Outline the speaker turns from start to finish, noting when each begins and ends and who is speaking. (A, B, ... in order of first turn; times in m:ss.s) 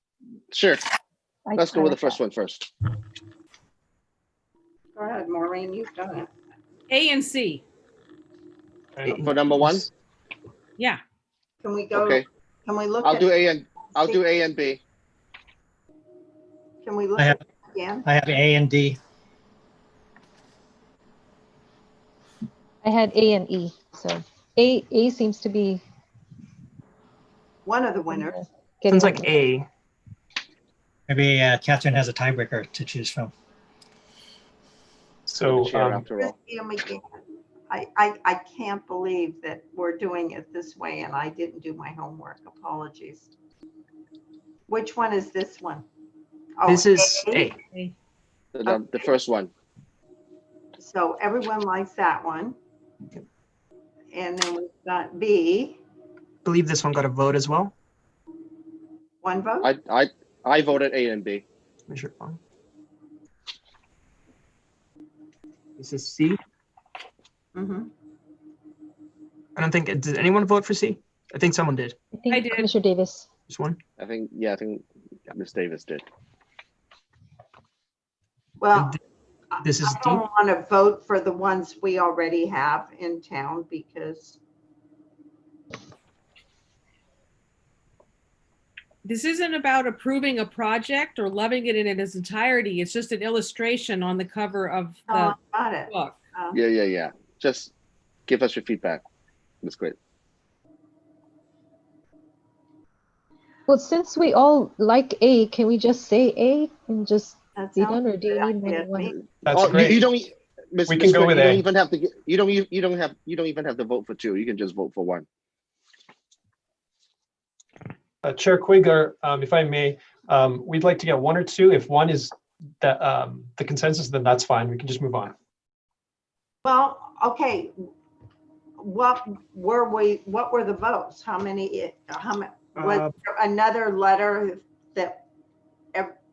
0:00.5-0:00.8 A
0:01.5-0:02.2 B
0:01.6-0:02.7 A
0:05.0-0:06.3 C
0:06.9-0:07.6 D
0:09.0-0:09.8 E
0:09.1-0:09.9 A
0:11.6-0:14.2 C
0:11.9-0:12.2 A
0:13.0-0:14.8 A
0:16.8-0:18.0 C
0:18.0-0:19.0 F
0:22.8-0:25.8 B
0:27.6-0:28.4 C
0:28.1-0:29.3 B
0:28.9-0:29.7 G
0:31.1-0:33.3 F
0:35.3-0:36.1 E
0:35.4-0:36.4 A
0:36.2-0:43.3 C
0:44.7-0:45.8 C
0:46.6-0:47.5 C
0:46.7-0:47.6 G
0:48.5-0:49.5 A
0:48.7-0:49.1 C
0:50.8-0:52.6 C
0:54.1-0:55.8 C
0:56.4-0:57.7 G
0:59.2-0:59.7 C
0:59.6-1:01.4 A
1:01.9-1:02.4 G
1:05.8-1:06.4 G
1:07.6-1:07.9 C
1:09.6-1:12.0 G
1:12.1-1:13.3 B
1:12.3-1:12.6 D
1:13.5-1:13.8 G
1:14.0-1:16.0 A
1:18.6-1:19.0 C
1:19.5-1:24.4 C
1:19.6-1:20.2 G
1:29.0-1:35.3 D
1:35.1-1:36.6 C
1:35.9-1:36.2 D
1:36.5-1:37.7 A
1:38.3-1:39.0 A
1:39.6-1:40.0 A
1:43.7-1:49.1 B
1:47.6-1:49.3 C
1:49.4-1:50.0 E
1:49.5-1:55.3 A
1:50.9-1:51.6 E
1:58.2-2:05.3 E
2:06.6-2:07.7 C
2:08.8-2:15.2 C
2:12.8-2:13.1 G